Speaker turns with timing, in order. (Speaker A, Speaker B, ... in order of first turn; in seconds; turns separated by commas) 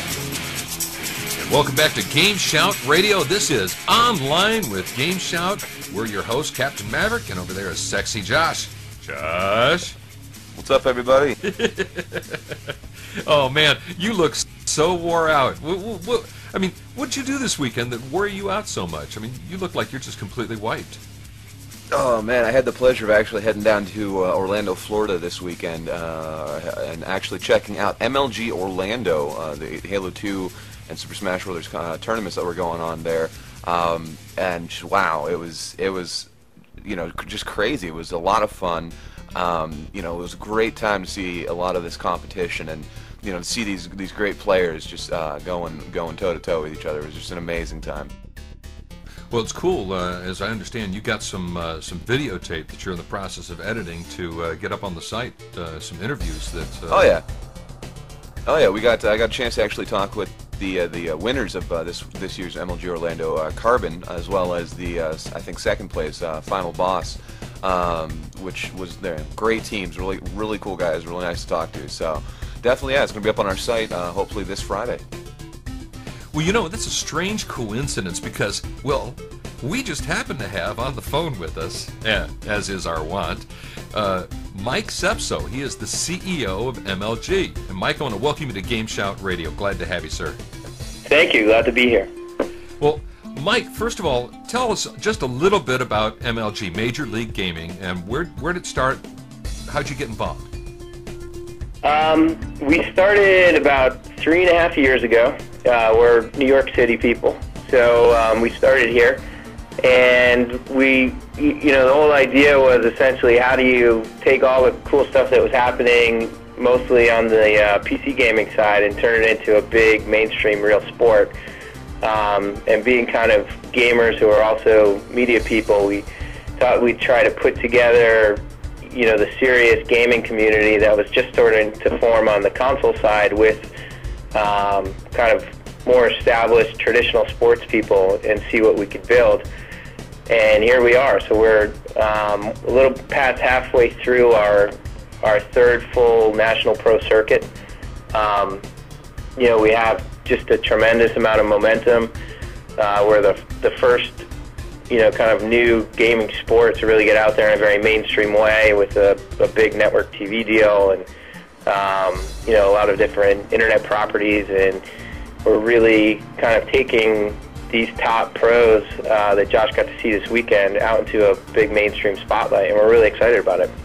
Speaker A: 1.4-9.9, Speaker B: 10.6-11.4, Speaker A: 11.4-21.0, Speaker B: 21.9-36.3, Speaker B: 36.8-48.1, Speaker A: 49.3-57.1, Speaker B: 56.9-57.2, Speaker B: 58.5-75.0, Speaker A: 76.3-90.4, Speaker C: 91.1-92.1, Speaker A: 92.8-99.0, Speaker A: 99.7-100.5, Speaker C: 101.8-109.2, Speaker C: 109.8-121.3, Speaker C: 122.0-126.1, Speaker C: 126.6-133.7, Speaker C: 134.3-139.4, Speaker C: 140.3-147.5, Speaker C: 148.1-148.6, Speaker C: 149.4-152.1, Speaker C: 152.8-154.2, Speaker C: 154.9-161.1, Speaker C: 161.7-164.8, Speaker C: 165.4-173.7